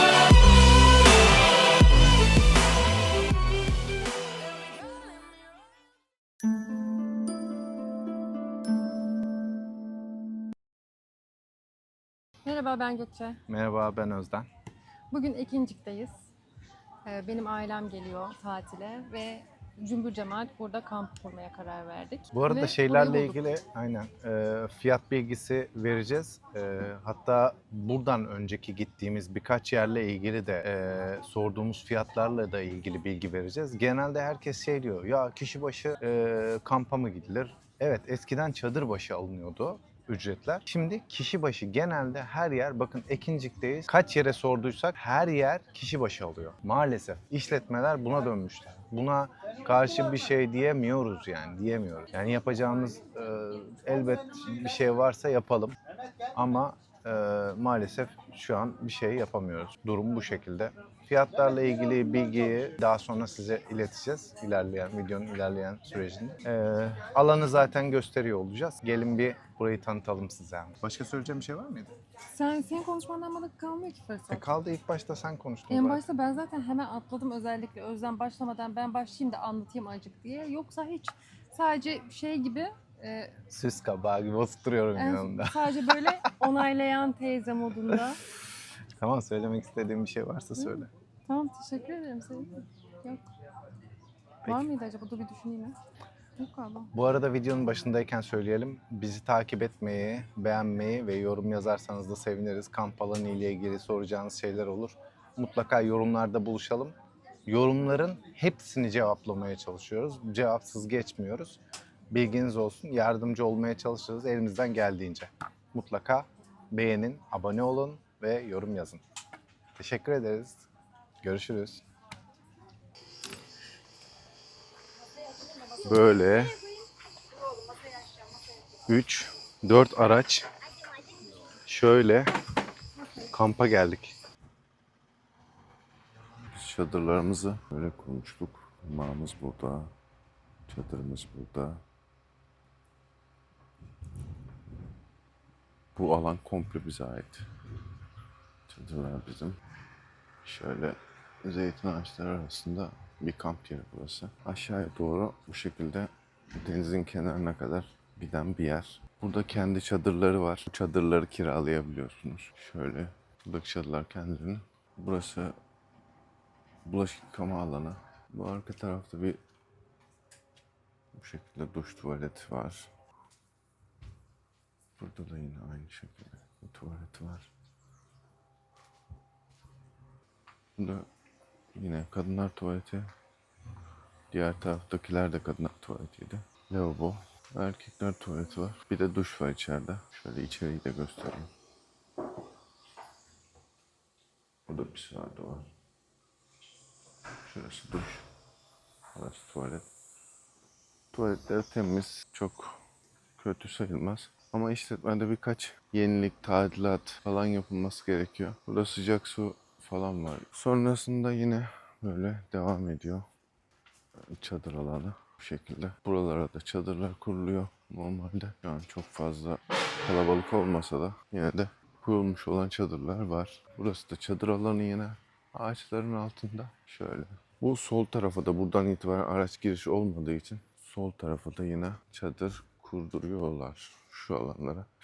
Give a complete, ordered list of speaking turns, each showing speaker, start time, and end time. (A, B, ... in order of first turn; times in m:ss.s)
0:12.4-0:13.4 A
0:13.5-0:14.5 B
0:15.1-0:16.1 A
0:17.0-0:23.4 A
0:22.3-0:55.8 B
0:56.3-1:11.9 B
1:12.3-1:14.5 A
1:14.3-1:16.0 B
1:15.7-1:23.3 A
1:23.5-1:26.4 B
1:25.0-1:28.2 A
1:29.0-1:30.9 B
1:31.3-1:33.2 A
1:34.4-1:35.8 A
1:36.4-1:36.9 A
1:36.9-1:46.9 B
1:47.5-1:51.6 B
1:52.1-1:59.0 B
1:59.8-2:00.7 B
2:01.2-2:01.8 B
2:05.8-2:06.6 B
2:08.9-2:10.5 B
2:11.6-2:12.3 B
2:13.3-2:14.2 B
2:16.5-2:19.9 C
2:20.7-2:21.8 C
2:25.9-2:27.4 C
2:28.7-2:29.6 C
2:30.4-2:45.5 C
2:46.8-2:49.4 C
2:51.1-2:52.9 C
2:55.0-2:57.5 C
3:00.8-3:01.1 C
3:01.7-3:03.1 C
3:04.3-3:11.5 C
3:14.7-3:15.7 C
3:17.4-3:18.2 C
3:19.1-3:19.8 C
3:21.1-3:22.8 C
3:23.4-3:33.2 C
3:34.2-3:54.9 C